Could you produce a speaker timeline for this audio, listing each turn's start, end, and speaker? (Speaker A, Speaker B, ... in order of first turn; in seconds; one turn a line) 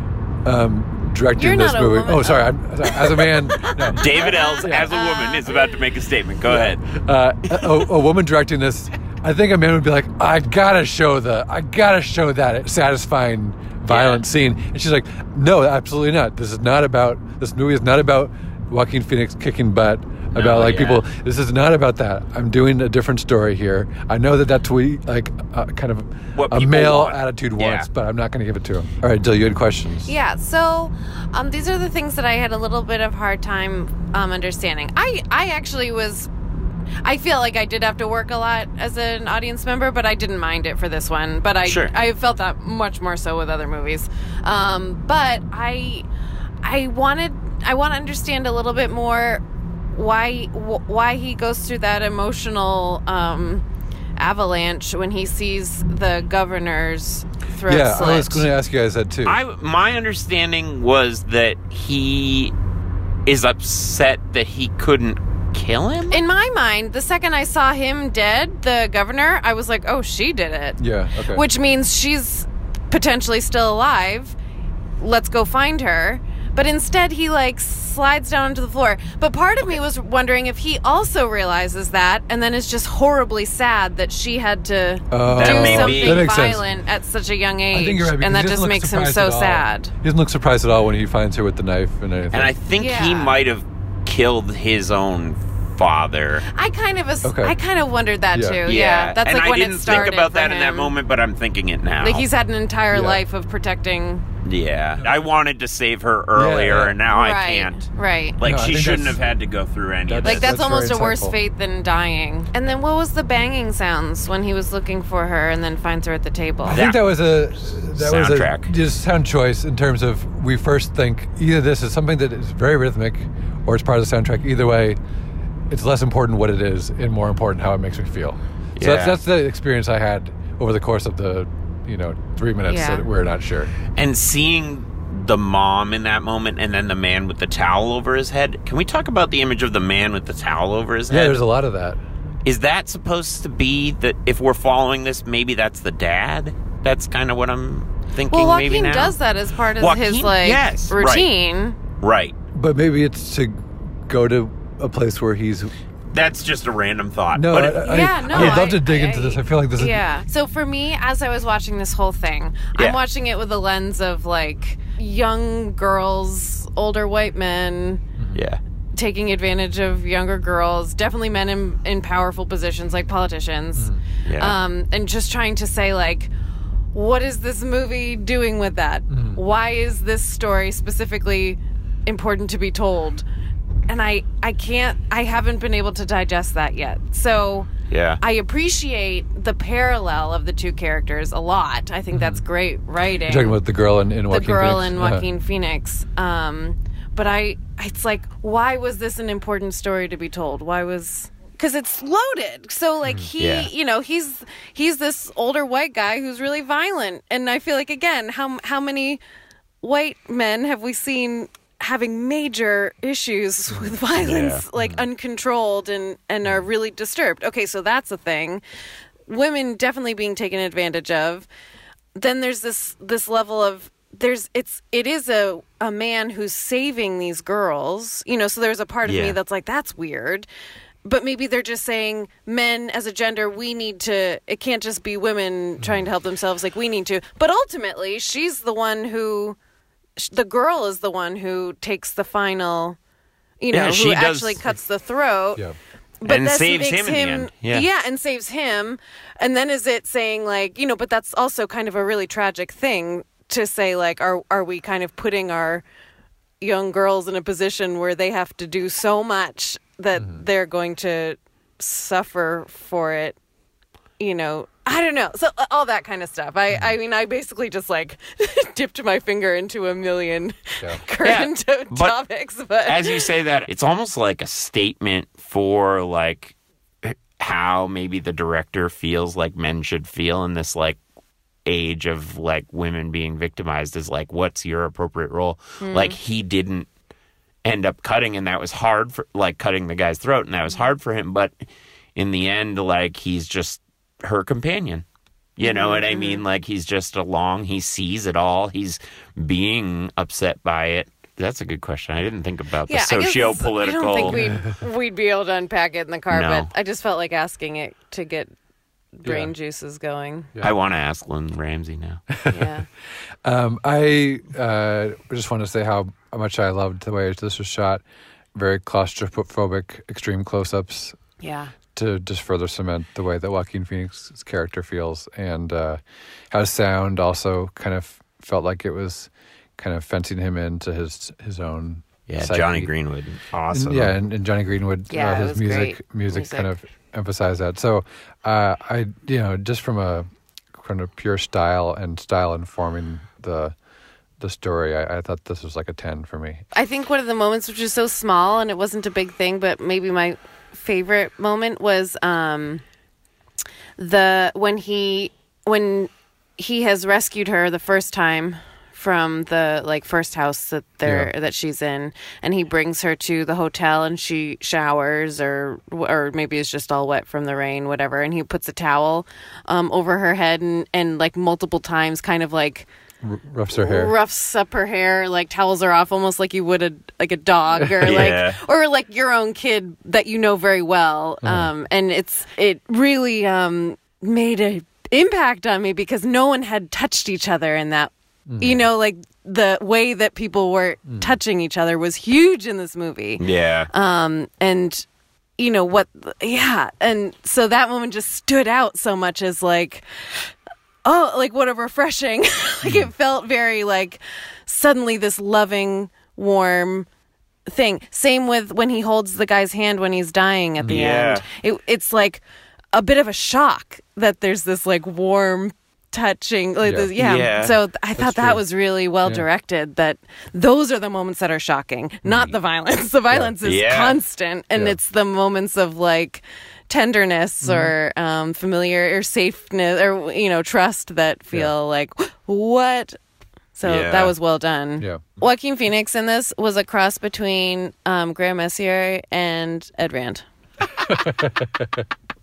Speaker A: 0.4-4.9
Speaker B: 1.4-5.8
Speaker C: 3.9-6.8
Speaker A: 6.5-30.1
Speaker C: 7.5-7.8
Speaker C: 13.9-14.2
Speaker C: 20.3-21.0
Speaker C: 26.3-27.9
Speaker B: 30.1-36.3
Speaker B: 37.0-46.0
Speaker C: 41.6-41.9
Speaker B: 46.6-49.4
Speaker B: 49.9-53.6
Speaker B: 54.2-58.5
Speaker A: 57.7-59.4
Speaker C: 59.2-62.5
Speaker C: 63.2-66.2
Speaker B: 66.1-74.3
Speaker A: 70.8-71.4
Speaker B: 75.0-89.9
Speaker A: 85.1-86.6
Speaker C: 85.3-86.3
Speaker A: 87.7-92.5
Speaker C: 92.3-96.4
Speaker B: 92.7-93.3
Speaker B: 96.5-100.9
Speaker A: 97.2-97.5
Speaker A: 98.3-98.6
Speaker C: 98.6-102.3
Speaker B: 102.0-104.2
Speaker A: 102.9-103.2
Speaker C: 104.4-107.9
Speaker A: 106.3-107.0
Speaker B: 107.1-108.4
Speaker C: 108.4-110.6
Speaker A: 108.4-109.2
Speaker A: 110.1-111.3
Speaker B: 110.2-116.8
Speaker A: 116.7-125.0
Speaker C: 116.7-117.0
Speaker C: 118.0-118.7
Speaker A: 125.7-133.7
Speaker C: 128.8-129.2
Speaker B: 132.7-133.0
Speaker C: 133.9-141.4
Speaker A: 141.1-142.0
Speaker C: 142.4-149.2
Speaker B: 148.3-151.8
Speaker C: 149.8-151.3
Speaker C: 152.0-152.3
Speaker A: 152.5-155.7
Speaker C: 156.1-158.7
Speaker A: 157.3-160.0
Speaker B: 157.8-168.0
Speaker C: 162.7-163.0
Speaker A: 168.2-168.4
Speaker C: 168.3-168.6
Speaker B: 168.9-176.3
Speaker A: 173.8-174.0
Speaker C: 174.2-174.6
Speaker B: 176.9-183.2
Speaker A: 179.1-179.4
Speaker B: 183.9-187.7
Speaker C: 187.9-188.2
Speaker B: 188.2-193.6
Speaker A: 192.1-192.4
Speaker A: 193.3-195.2
Speaker B: 194.3-209.2
Speaker C: 203.4-203.7
Speaker B: 209.8-218.6
Speaker C: 214.2-214.6
Speaker A: 214.8-215.0
Speaker B: 219.3-221.5
Speaker B: 222.1-230.5
Speaker C: 229.0-229.4
Speaker B: 231.0-239.6
Speaker A: 235.8-236.1
Speaker B: 240.2-243.0
Speaker B: 243.6-245.6
Speaker C: 243.7-244.6
Speaker B: 246.2-255.8
Speaker C: 246.2-247.9
Speaker B: 256.6-263.4
Speaker A: 260.1-260.4
Speaker B: 264.2-273.3
Speaker C: 271.2-272.1
Speaker C: 272.9-281.0
Speaker C: 281.6-286.9
Speaker B: 285.8-286.1
Speaker C: 287.6-291.5
Speaker C: 292.1-295.0
Speaker C: 295.6-304.4
Speaker B: 295.6-296.4
Speaker B: 302.9-308.5
Speaker A: 304.3-304.8
Speaker C: 306.3-306.7
Speaker B: 309.2-310.5
Speaker A: 309.2-309.5
Speaker C: 310.6-312.2
Speaker A: 312.3-312.6
Speaker B: 312.5-312.9
Speaker A: 313.4-318.0
Speaker A: 318.5-321.2
Speaker B: 321.4-321.7
Speaker A: 321.9-326.0
Speaker A: 326.5-332.9
Speaker C: 332.3-334.1
Speaker A: 333.7-343.7
Speaker B: 335.1-336.7
Speaker A: 344.4-346.6
Speaker B: 346.7-352.8
Speaker B: 354.0-372.9
Speaker A: 361.0-361.3
Speaker A: 373.2-374.1
Speaker B: 373.7-395.0
Speaker A: 377.8-378.1
Speaker C: 378.0-378.6
Speaker A: 381.4-381.7
Speaker A: 388.5-388.8
Speaker A: 391.1-391.3
Speaker C: 393.4-393.9
Speaker B: 395.6-400.5
Speaker B: 401.0-407.1
Speaker A: 402.8-403.1
Speaker B: 407.7-412.4
Speaker C: 410.9-411.4
Speaker B: 412.9-433.2
Speaker A: 416.8-417.1
Speaker C: 417.1-417.8
Speaker A: 418.2-418.6
Speaker A: 422.2-422.5
Speaker C: 423.6-424.2
Speaker A: 427.6-427.9
Speaker B: 433.8-440.4
Speaker C: 433.8-434.3
Speaker A: 441.0-442.0